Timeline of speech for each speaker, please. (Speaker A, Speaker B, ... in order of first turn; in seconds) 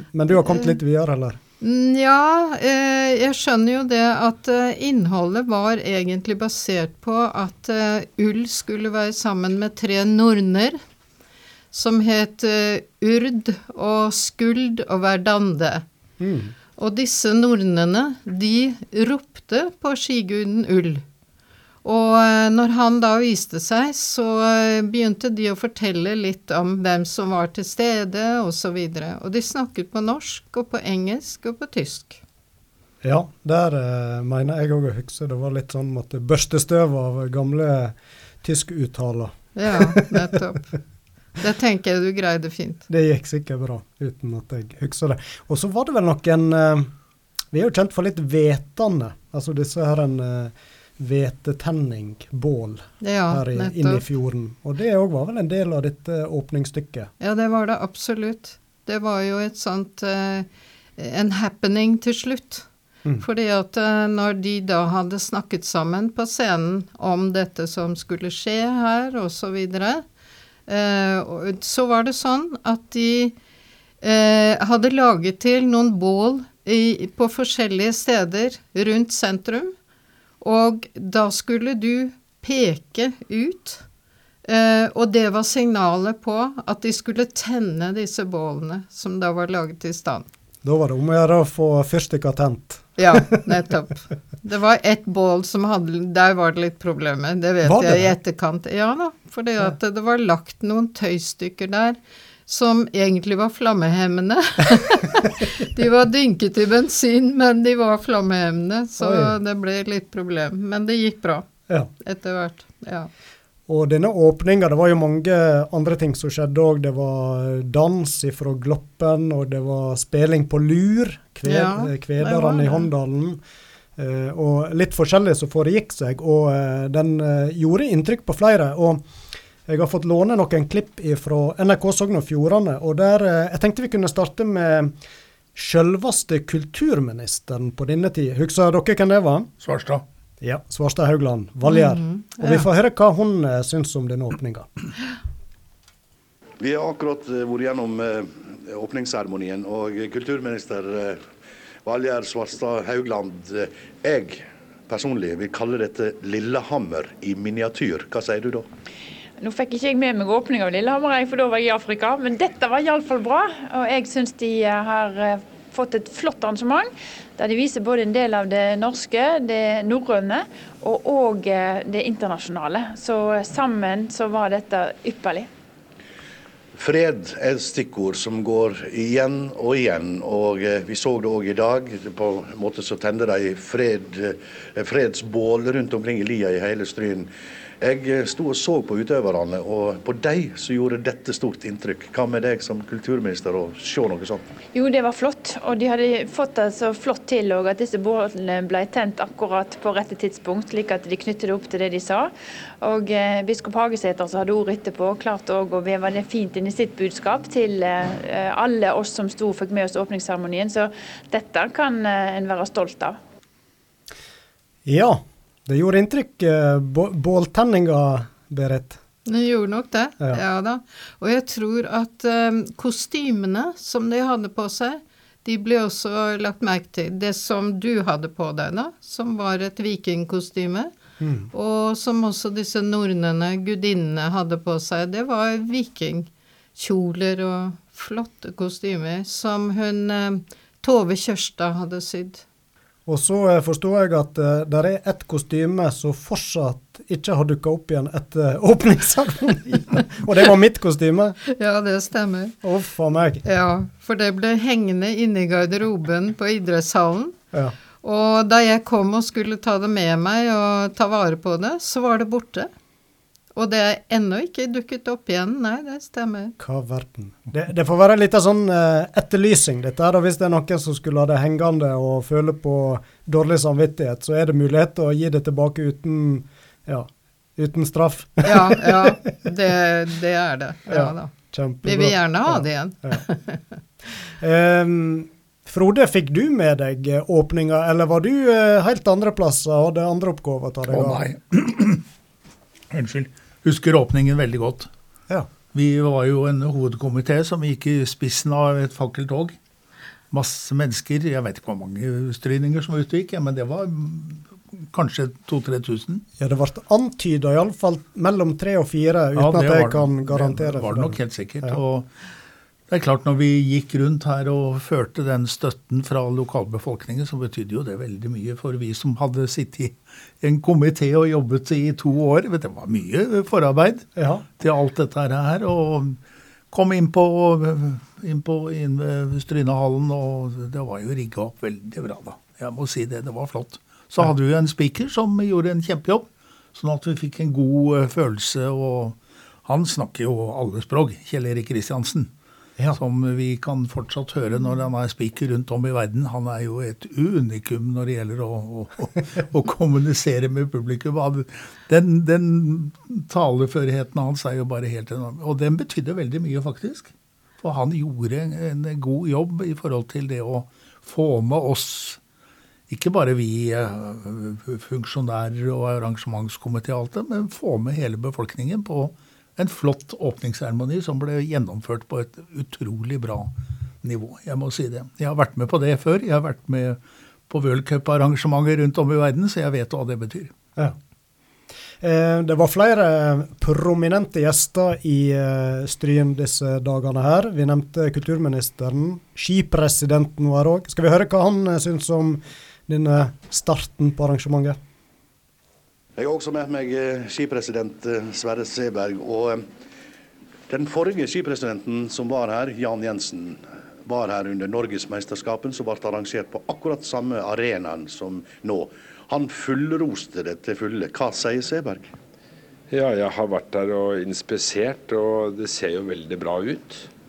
Speaker A: 0.1-1.4, 16.2-16.5, 33.0-40.4, 42.9-46.9, 47.5-57.1, 90.6-93.2, 97.6-98.1, 109.0-109.3, 113.7-123.4, 124.0-129.0, 129.7-134.9, 135.6-139.5, 140.4-144.7, 214.8-219.0, 231.2-231.5, 243.1-251.4, 252.6-253.4, 266.6-279.3, 280.9-283.2, 284.4-291.2, 306.4-311.8, 324.1-324.4, 382.0-394.8
Speaker B: 0.3-0.8, 1.6-10.8, 11.7-15.8, 16.8-21.0, 21.8-32.2, 39.5-40.7, 41.4-42.9, 53.0-54.0, 57.2-62.7, 63.2-70.0, 70.7-73.3, 74.0-79.7, 80.4-83.8, 84.4-90.3, 93.0-111.5, 112.0-113.1, 121.5-122.9, 141.6-142.6, 219.2-230.9, 231.5-242.4, 251.5-252.6, 253.4-257.4, 258.0-262.7, 263.5-266.5, 278.4-283.6
Speaker C: 139.6-140.0, 290.9-292.0, 292.9-294.9, 295.7-299.6, 300.3-306.2, 309.3-312.1, 312.9-326.2, 326.7-342.3, 342.9-362.2, 362.9-380.5
Speaker D: 146.6-151.3, 151.8-158.7, 176.7-187.3, 187.8-194.4, 396.2-399.7, 400.7-412.1
Speaker E: 159.4-175.5, 194.7-213.2
Speaker F: 412.9-417.1